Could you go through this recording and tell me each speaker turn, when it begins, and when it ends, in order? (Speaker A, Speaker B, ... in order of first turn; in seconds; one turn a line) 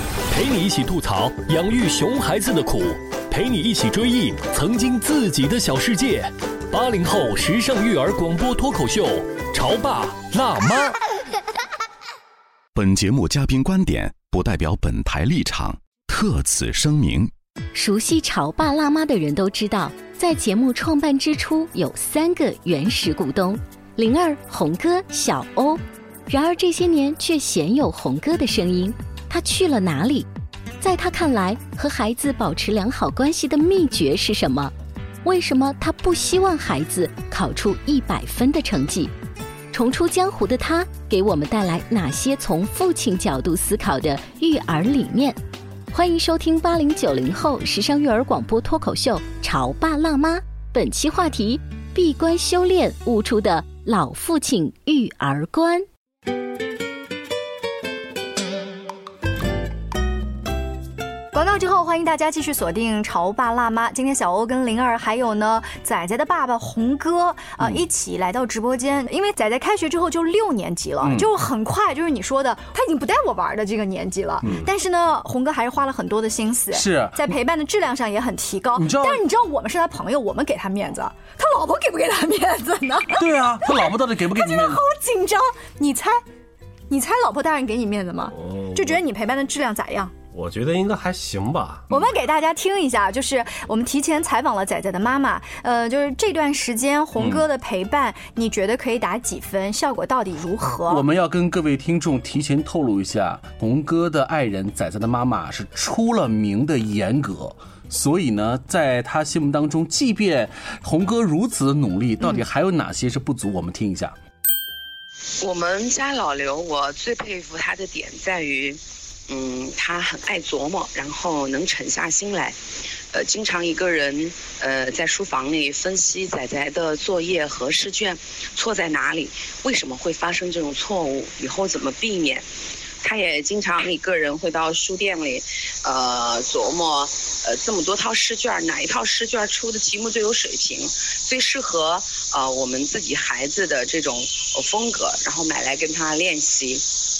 Speaker A: 0.4-6.3
Speaker A: 6.8-9.2
Speaker A: 9.7-10.1
Speaker B: 12.8-17.3
Speaker C: 17.7-30.3
Speaker C: 30.8-34.7
Speaker C: 35.2-39.1
Speaker C: 39.7-45.4
Speaker C: 45.9-55.9
Speaker D: 61.3-86.2
Speaker E: 71.0-71.3
Speaker E: 76.7-77.4
Speaker E: 78.8-79.2
Speaker E: 83.2-84.8
Speaker D: 86.9-90.2
Speaker F: 88.3-89.0
Speaker F: 90.3-92.0
Speaker D: 91.9-101.0
Speaker E: 97.2-97.5
Speaker E: 100.9-114.2
Speaker G: 115.4-122.6
Speaker G: 123.1-132.5
Speaker G: 133.0-146.9